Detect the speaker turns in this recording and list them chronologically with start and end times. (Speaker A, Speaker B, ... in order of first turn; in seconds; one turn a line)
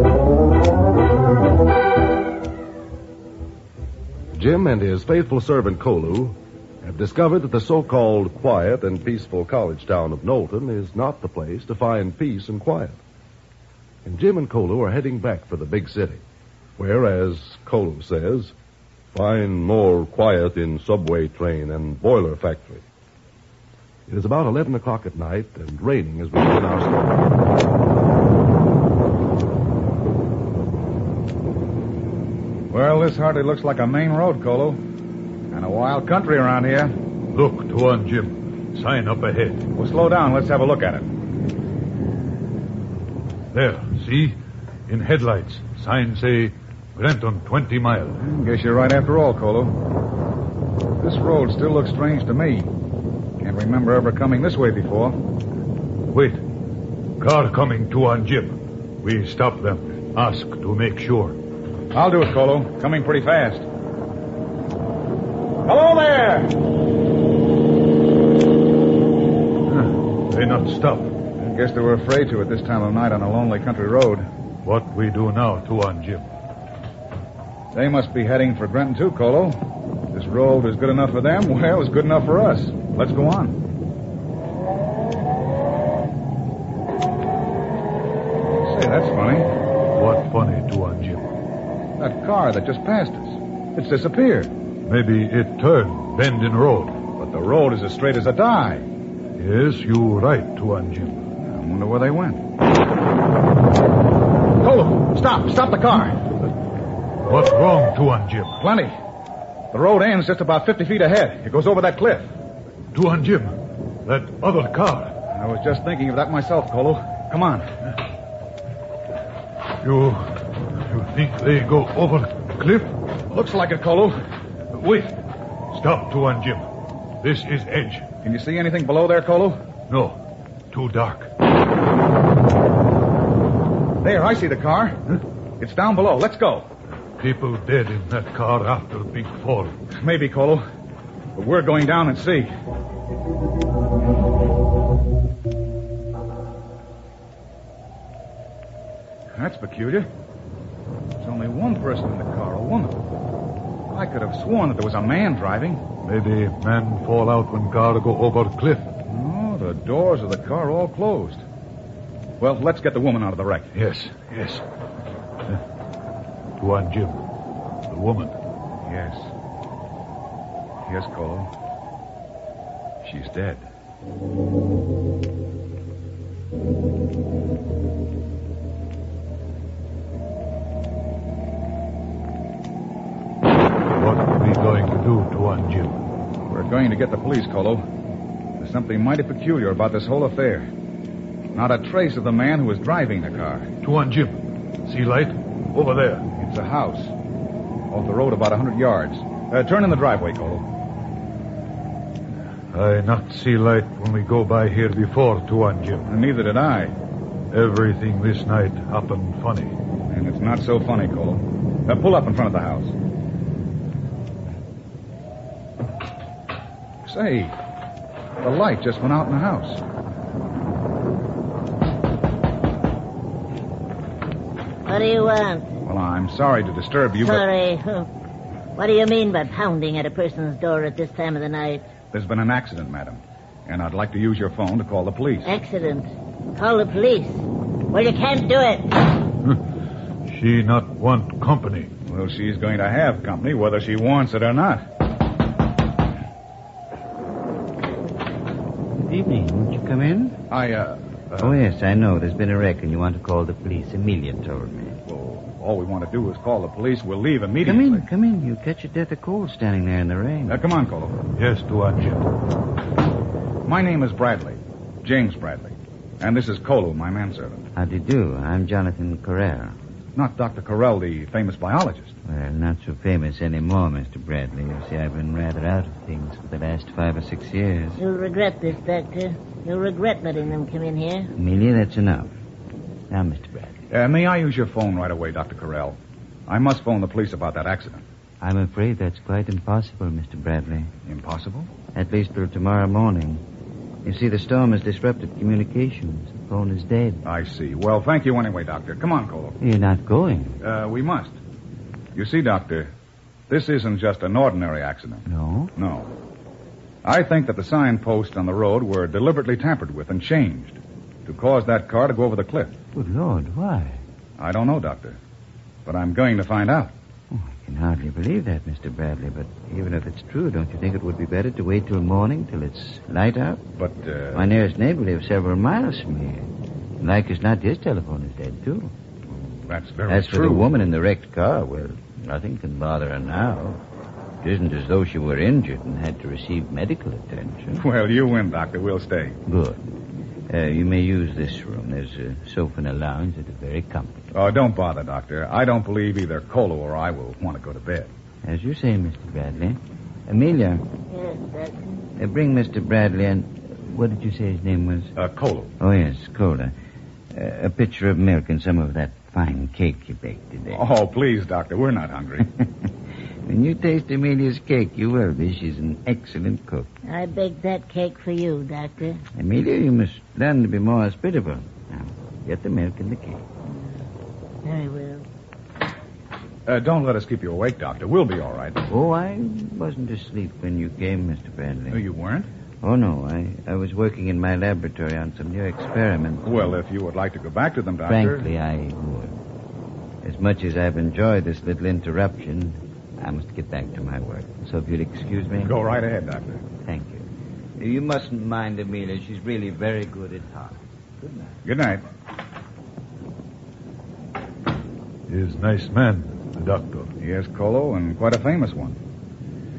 Speaker A: 4.3-13.0
Speaker A: 14.0-16.2
Speaker A: 16.8-18.5
Speaker A: 19.1-22.8
Speaker A: 24.1-27.2
Speaker B: 32.7-34.8
Speaker B: 35.5-36.9
Speaker C: 37.3-39.6
Speaker B: 39.7-41.1
Speaker C: 43.5-44.4
Speaker C: 44.9-48.2
Speaker B: 48.2-49.7
Speaker B: 51.0-52.7
Speaker B: 53.4-55.2
Speaker C: 56.1-56.4
Speaker C: 57.2-61.4
Speaker B: 61.9-63.6
Speaker B: 65.6-66.6
Speaker C: 69.7-71.1
Speaker B: 71.4-74.3
Speaker C: 74.6-76.3
Speaker B: 77.7-79.6
Speaker B: 80.1-83.6
Speaker B: 88.6-89.5
Speaker C: 90.0-91.3
Speaker B: 92.0-94.5
Speaker C: 94.8-97.0
Speaker B: 97.2-98.9
Speaker C: 99.4-101.2
Speaker B: 101.4-102.4
Speaker B: 104.6-106.2
Speaker C: 107.2-108.6
Speaker B: 108.6-108.9
Speaker B: 109.7-112.3
Speaker C: 112.9-113.5
Speaker C: 114.0-115.1
Speaker B: 115.3-117.6
Speaker C: 119.8-120.3
Speaker C: 120.9-122.9
Speaker B: 123.3-124.2
Speaker C: 124.7-125.2
Speaker C: 125.7-126.7
Speaker C: 127.2-128.1
Speaker B: 128.2-129.6
Speaker C: 129.9-130.2
Speaker C: 130.7-131.3
Speaker B: 134.0-136.7
Speaker C: 137.2-139.7
Speaker B: 139.9-140.6
Speaker B: 141.3-142.5
Speaker B: 149.4-150.1
Speaker B: 151.2-153.0
Speaker B: 153.9-155.8
Speaker C: 156.0-158.9
Speaker B: 159.0-161.4
Speaker B: 162.4-163.7
Speaker C: 163.7-164.6
Speaker C: 166.6-167.2
Speaker C: 167.9-168.3
Speaker B: 168.8-169.3
Speaker B: 170.8-171.5
Speaker B: 173.0-173.7
Speaker C: 183.9-186.0
Speaker B: 186.5-187.8
Speaker B: 188.6-190.7
Speaker B: 191.5-193.7
Speaker C: 193.8-196.2
Speaker B: 196.3-197.1
Speaker B: 197.9-200.7
Speaker C: 202.7-206.1
Speaker B: 206.1-206.9
Speaker C: 207.5-209.8
Speaker B: 210.1-212.9
Speaker B: 217.0-217.5
Speaker B: 218.4-219.8
Speaker D: 224.8-225.7
Speaker B: 225.8-227.4
Speaker D: 227.2-228.1
Speaker D: 228.7-231.9
Speaker B: 232.1-235.5
Speaker D: 235.4-239.1
Speaker C: 240.3-241.9
Speaker B: 242.1-244.8
Speaker E: 249.0-250.5
Speaker B: 250.5-251.6
Speaker E: 251.4-255.0
Speaker B: 255.1-258.1
Speaker E: 257.6-260.6
Speaker B: 260.5-261.1
Speaker C: 261.4-262.3
Speaker B: 263.6-267.6
Speaker E: 267.7-269.8
Speaker B: 270.1-272.1
Speaker E: 272.2-278.0
Speaker D: 278.0-281.3
Speaker E: 281.3-282.3
Speaker E: 283.1-283.8
Speaker B: 283.9-288.0
Speaker E: 288.4-290.9
Speaker B: 291.1-291.7
Speaker E: 291.9-293.4
Speaker E: 294.0-297.2
Speaker B: 297.2-299.6
Speaker E: 299.6-300.6
Speaker B: 300.6-301.4
Speaker B: 302.1-302.9
Speaker B: 303.5-306.1
Speaker E: 305.3-305.7
Speaker B: 307.0-312.7
Speaker E: 312.9-314.0
Speaker B: 314.4-315.2
Speaker B: 315.9-316.9
Speaker E: 317.3-323.6
Speaker B: 323.8-324.5
Speaker E: 324.3-326.5
Speaker E: 327.0-328.9
Speaker B: 329.3-330.8
Speaker E: 330.1-333.8
Speaker E: 334.4-337.8
Speaker B: 337.8-339.4
Speaker E: 339.5-339.8
Speaker E: 340.5-344.3
Speaker B: 344.3-348.1
Speaker E: 348.4-350.8
Speaker D: 351.1-351.8
Speaker E: 352.2-355.1
Speaker B: 355.1-355.7
Speaker E: 355.8-356.7
Speaker E: 357.3-360.8
Speaker B: 360.7-362.5
Speaker E: 363.4-366.9
Speaker D: 367.1-369.2
Speaker E: 369.3-373.4
Speaker D: 373.7-373.9
Speaker D: 374.6-375.2
Speaker B: 376.7-378.8
Speaker E: 378.9-382.0
Speaker B: 381.9-382.5
Speaker E: 382.8-386.5
Speaker B: 386.4-388.5
Speaker E: 388.1-389.4
Speaker E: 390.2-395.7
Speaker B: 395.6-396.6
Speaker E: 396.8-401.5
Speaker B: 401.6-402.0
Speaker C: 405.3-407.1
Speaker B: 407.2-409.0